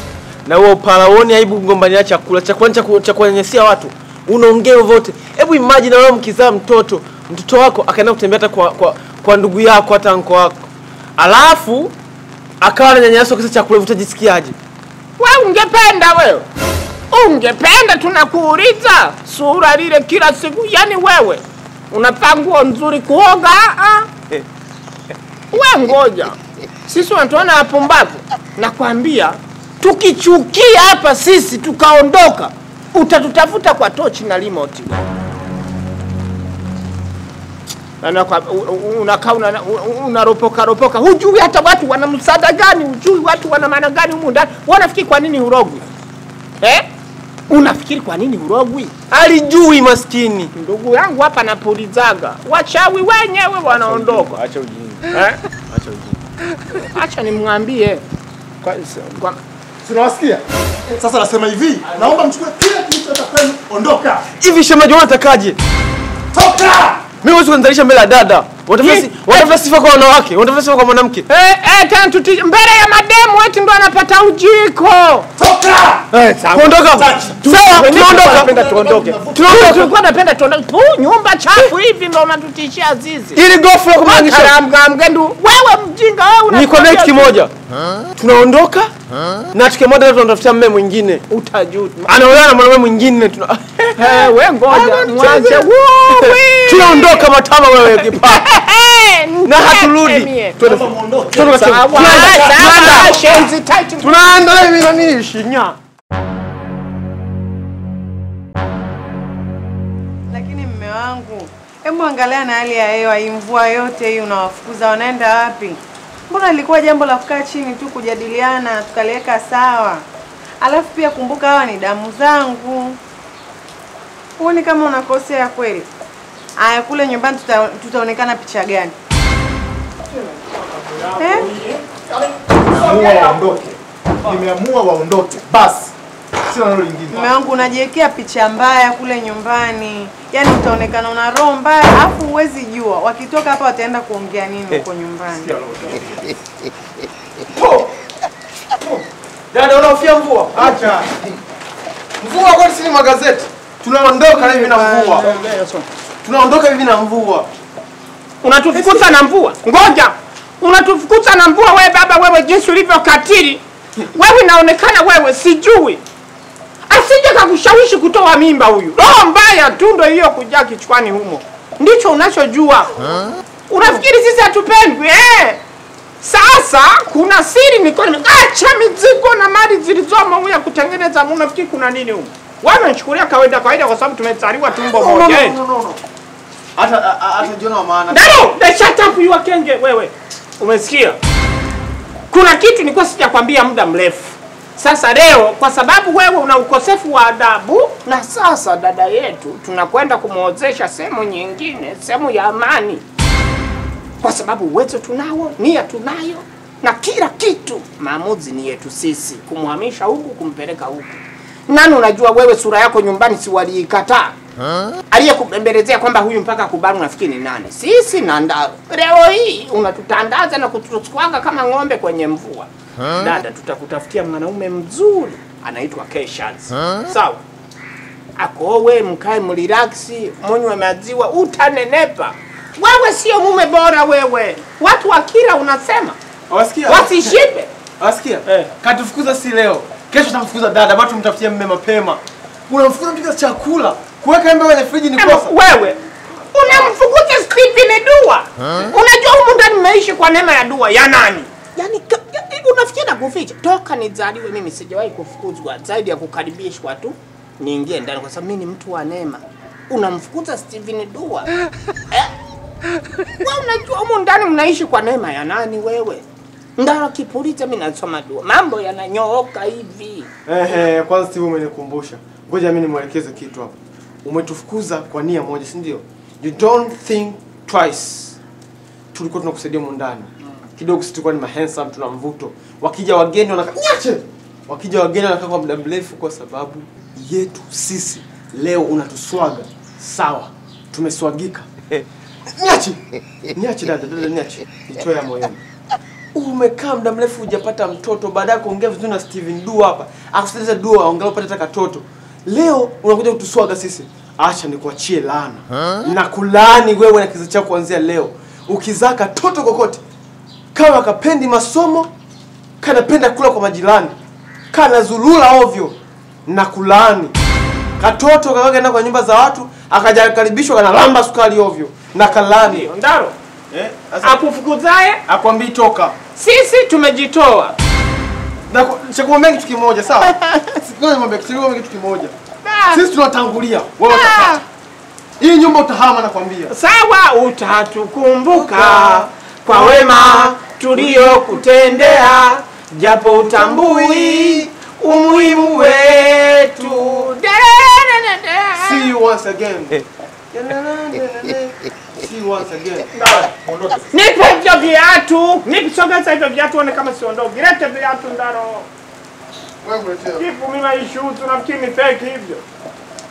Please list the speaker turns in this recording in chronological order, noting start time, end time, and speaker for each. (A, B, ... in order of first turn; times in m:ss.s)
0:00.5-0:10.7 A
0:11.2-0:12.0 A
0:12.6-0:14.6 A
0:15.2-0:16.5 B
0:17.1-0:24.1 B
0:25.5-0:35.1 B
0:38.0-0:45.9 B
0:46.6-0:46.9 B
0:47.5-0:48.9 B
0:49.1-0:50.5 A
0:50.6-0:54.4 B
0:53.7-0:55.2 A
0:55.1-0:55.4 B
0:55.7-0:56.2 A
0:56.7-0:58.0 B
0:58.6-0:59.4 B
0:59.8-1:04.3 C
1:04.4-1:05.6 A
1:06.3-1:07.0 C
1:07.2-1:11.2 A
1:08.8-1:09.6 B
1:11.3-1:15.3 B
1:15.4-1:16.1 C
1:16.1-1:18.5 A
1:16.4-1:16.8 B
1:16.9-1:19.9 C
1:17.5-1:23.4 B
1:23.4-1:24.6 A
1:24.0-1:27.4 B
1:26.5-1:27.5 A
1:28.2-1:28.9 A
1:29.5-1:31.2 A
1:31.3-1:32.5 B
1:32.1-1:38.4 A
1:34.0-1:40.6 B
1:39.4-1:43.0 A
1:40.6-1:43.5 C
1:41.5-1:44.2 B
1:44.0-1:45.8 A
1:50.3-2:00.0 D
2:00.6-2:03.0 D
2:04.4-2:05.9 D
2:06.6-2:09.0 D
2:10.1-2:13.5 B
2:11.2-2:11.5 D
2:12.7-2:17.3 C
2:17.1-2:25.5 D
2:25.4-2:26.3 C
2:27.6-2:27.9 A
2:28.8-2:31.1 A
2:32.2-2:35.3 A
2:34.3-2:35.5 D
2:35.2-2:35.9 B
2:36.2-2:37.5 A
2:38.4-2:46.0 B
2:38.7-2:39.1 A
2:46.9-2:55.6 B
2:56.2-3:05.6 B
3:04.8-3:06.0 A
3:06.8-3:08.4 A
3:08.1-3:11.2 B
3:12.3-3:23.0 B
3:24.2-3:34.4 B
3:35.1-3:47.4 B
3:48.4-3:56.2 B
3:56.5-3:57.4 A
3:56.9-3:57.7 B
3:58.0-4:05.5 A
4:05.2-4:21.5 B
4:23.4-4:26.3 B
4:26.8-4:30.3 B
4:30.5-4:38.4 A
4:39.1-4:53.0 A
4:53.5-4:55.6 A
4:56.4-5:10.0 A
5:10.7-5:12.1 A
5:12.8-5:14.2 A
5:14.7-5:17.4 A
5:18.0-5:22.9 A
5:22.2-5:23.4 B
5:23.7-5:24.4 A
5:24.2-5:25.2 B
5:25.3-5:26.2 A
5:26.4-5:27.8 B
5:28.7-5:32.4 A
5:30.2-5:30.7 B
5:32.6-5:33.1 B
5:32.9-5:34.6 A
5:34.1-5:34.6 B
5:35.4-5:36.7 A
5:36.7-5:49.1 B
5:38.5-5:41.6 A
5:43.3-5:44.7 A
5:45.2-5:47.3 A
5:48.8-5:53.4 A
5:53.1-5:53.5 B
5:53.4-5:54.1 C
5:54.1-5:58.9 B
5:59.8-6:00.4 A
6:00.4-6:02.6 B